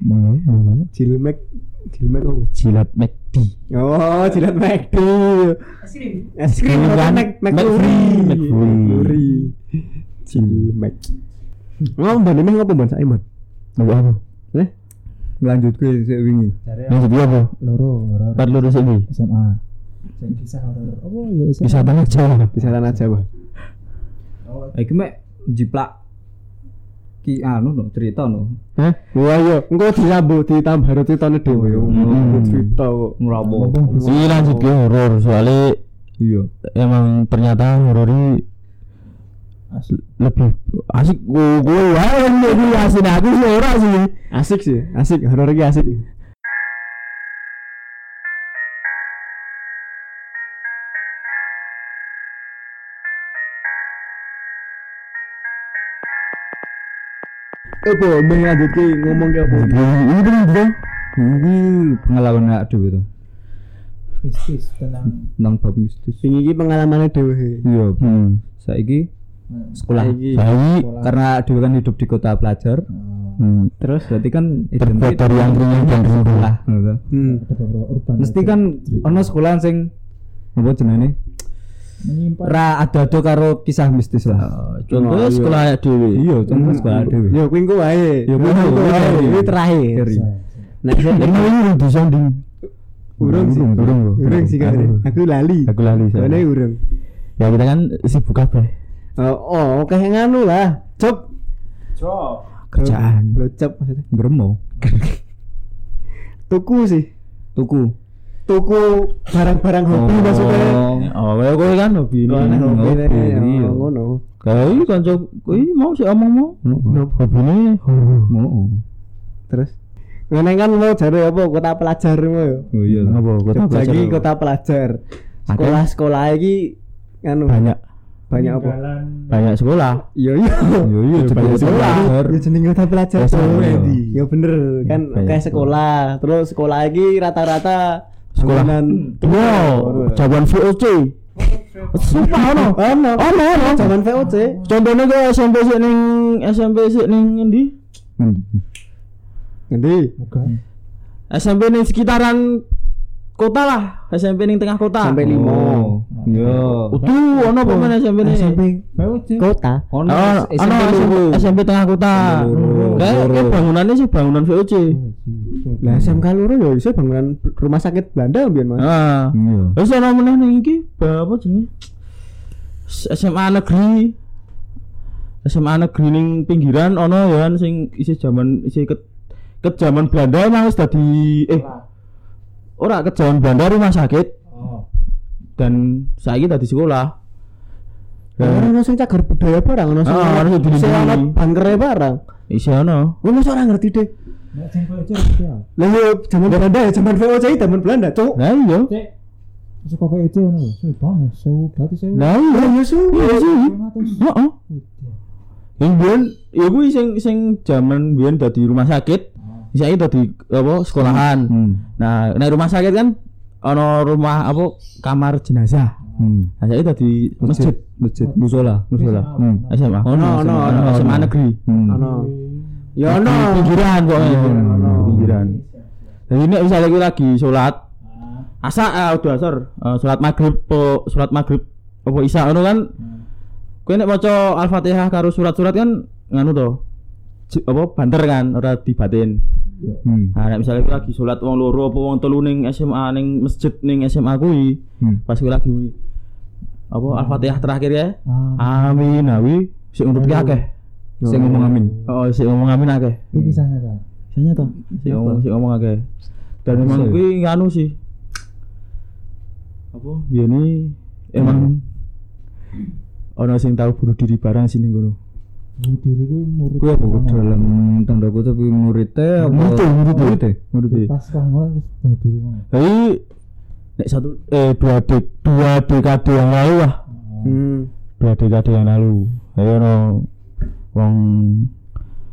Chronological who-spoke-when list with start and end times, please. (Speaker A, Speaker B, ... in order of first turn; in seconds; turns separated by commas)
Speaker A: 0.9-2.5, Speaker B: 2.5-3.5, Speaker A: 3.7-9.6, Speaker B: 6.5-9.2, Speaker A: 10.2-11.1, Speaker A: 12.0-13.2, Speaker B: 13.8-14.2, Speaker C: 15.4-16.6, Speaker D: 16.6-19.6, Speaker B: 16.9-17.5, Speaker B: 18.4-19.1, Speaker D: 20.2-23.0, Speaker B: 21.6-22.5, Speaker A: 22.5-23.3, Speaker D: 24.4-24.8, Speaker C: 24.8-25.9, Speaker C: 27.2-28.6, Speaker A: 28.8-33.2, Speaker C: 31.5-33.8, Speaker B: 31.9-32.5, Speaker D: 33.4-34.2, Speaker A: 33.8-34.7, Speaker B: 34.0-35.8, Speaker C: 36.2-36.5, Speaker B: 36.8-38.4, Speaker B: 39.8-44.1, Speaker A: 44.3-46.0, Speaker A: 57.9-60.0, Speaker B: 59.5-60.7, Speaker C: 61.2-63.1, Speaker D: 64.2-65.3, Speaker C: 65.4-66.2, Speaker A: 66.2-67.7, Speaker C: 67.6-69.1, Speaker B: 68.0-68.4, Speaker D: 69.5-69.8, Speaker C: 69.7-70.3, Speaker A: 69.9-70.5, Speaker B: 70.3-70.9, Speaker D: 70.8-71.2, Speaker C: 71.0-72.9, Speaker D: 72.9-73.4, Speaker B: 73.4-73.7, Speaker A: 73.8-74.1, Speaker C: 74.1-77.0, Speaker B: 74.8-76.5, Speaker A: 77.1-77.4, Speaker D: 77.2-79.3, Speaker C: 78.2-79.9, Speaker C: 80.6-81.2, Speaker D: 82.0-82.6, Speaker C: 82.4-84.5, Speaker B: 84.4-86.2, Speaker A: 84.9-85.7, Speaker C: 86.2-87.4, Speaker A: 86.5-90.1, Speaker D: 86.5-87.1, Speaker C: 88.3-90.3, Speaker B: 88.4-89.5, Speaker D: 90.1-90.7, Speaker A: 90.8-91.5, Speaker B: 91.0-92.4, Speaker A: 93.2-96.8, Speaker B: 93.2-95.0, Speaker C: 93.3-95.0, Speaker B: 95.7-96.4, Speaker B: 97.4-98.7, Speaker A: 99.2-101.2, Speaker D: 102.0-102.4, Speaker B: 102.7-103.4, Speaker A: 102.8-104.0, Speaker C: 104.1-104.6, Speaker A: 106.5-107.1, Speaker C: 107.6-107.9, Speaker A: 108.5-110.9, Speaker C: 109.9-111.1, Speaker B: 110.1-112.8, Speaker A: 112.3-114.2, Speaker C: 112.4-113.9, Speaker B: 114.4-116.6, Speaker D: 114.6-115.1, Speaker C: 116.6-117.0, Speaker A: 116.9-117.2, Speaker B: 117.2-118.3, Speaker C: 118.3-118.8, Speaker A: 120.3-122.7, Speaker C: 122.7-123.2, Speaker B: 122.9-124.2, Speaker A: 123.5-127.8, Speaker B: 125.5-125.8, Speaker B: 127.5-127.8, Speaker A: 128.3-128.8, Speaker D: 128.3-129.5, Speaker B: 129.3-130.0, Speaker A: 130.1-130.9, Speaker C: 130.8-132.4, Speaker B: 131.2-132.2, Speaker A: 131.4-140.3, Speaker B: 133.2-134.0, Speaker C: 133.3-134.1, Speaker B: 134.9-135.7, Speaker B: 138.3-141.2, Speaker D: 141.4-142.8, Speaker B: 141.9-143.9, Speaker A: 142.6-144.7, Speaker D: 144.1-144.7, Speaker B: 144.7-147.7, Speaker C: 148.2-148.6, Speaker A: 149.7-150.1, Speaker D: 150.2-150.6, Speaker B: 151.3-152.7, Speaker B: 153.4-155.4, Speaker A: 155.0-156.0, Speaker C: 155.2-157.0, Speaker D: 156.1-157.7, Speaker B: 156.4-158.6, Speaker A: 157.7-158.8, Speaker D: 158.9-159.5, Speaker A: 159.4-159.8, Speaker C: 159.9-161.5, Speaker B: 160.1-165.0, Speaker C: 162.1-163.6, Speaker D: 162.4-163.2, Speaker D: 164.9-166.2, Speaker A: 165.8-168.9, Speaker B: 168.8-171.7, Speaker C: 169.3-169.8, Speaker B: 172.9-174.2, Speaker B: 175.4-179.0, Speaker B: 179.6-181.7, Speaker D: 181.6-181.8, Speaker B: 182.8-184.3, Speaker D: 184.5-184.9, Speaker B: 185.6-187.1, Speaker B: 188.4-188.7, Speaker A: 188.4-192.2, Speaker B: 190.1-191.4, Speaker B: 192.5-193.2, Speaker A: 193.2-194.1, Speaker D: 194.5-195.7, Speaker A: 195.8-198.4, Speaker B: 198.4-198.9, Speaker D: 199.8-202.4, Speaker B: 202.1-204.6, Speaker A: 202.4-203.3, Speaker D: 203.1-205.2, Speaker B: 205.8-216.0, Speaker C: 211.0-211.8, Speaker D: 216.1-216.3, Speaker C: 216.2-216.5, Speaker B: 216.6-217.8, Speaker C: 217.4-219.7, Speaker D: 217.5-219.8, Speaker B: 218.9-221.8, Speaker A: 220.1-221.3, Speaker C: 220.9-222.0, Speaker D: 221.9-222.9, Speaker A: 221.9-222.3, Speaker A: 223.0-225.3, Speaker B: 223.1-225.6, Speaker C: 224.9-225.3, Speaker D: 225.2-225.9, Speaker B: 226.3-227.8, Speaker D: 228.1-228.5, Speaker B: 228.6-232.9, Speaker D: 233.0-233.2, Speaker B: 233.9-236.8, Speaker B: 237.5-239.4, Speaker C: 240.0-240.3, Speaker B: 240.3-245.9, Speaker B: 246.9-250.7, Speaker D: 247.1-247.7, Speaker D: 248.3-249.4, Speaker D: 250.1-250.6, Speaker A: 251.2-251.7, Speaker C: 251.3-252.0, Speaker D: 251.5-252.2, Speaker B: 252.1-253.3, Speaker C: 253.3-253.6, Speaker D: 253.3-254.0, Speaker B: 254.3-256.1, Speaker B: 256.6-257.9, Speaker C: 256.7-257.2, Speaker B: 259.9-261.8, Speaker C: 261.4-261.7, Speaker B: 263.4-265.2, Speaker D: 265.8-267.7, Speaker C: 266.8-270.6, Speaker D: 269.4-272.7, Speaker B: 269.5-271.1, Speaker B: 272.7-273.2, Speaker B: 274.0-277.0, Speaker D: 277.1-277.6, Speaker A: 277.4-277.9, Speaker B: 278.2-280.3, Speaker B: 280.9-281.7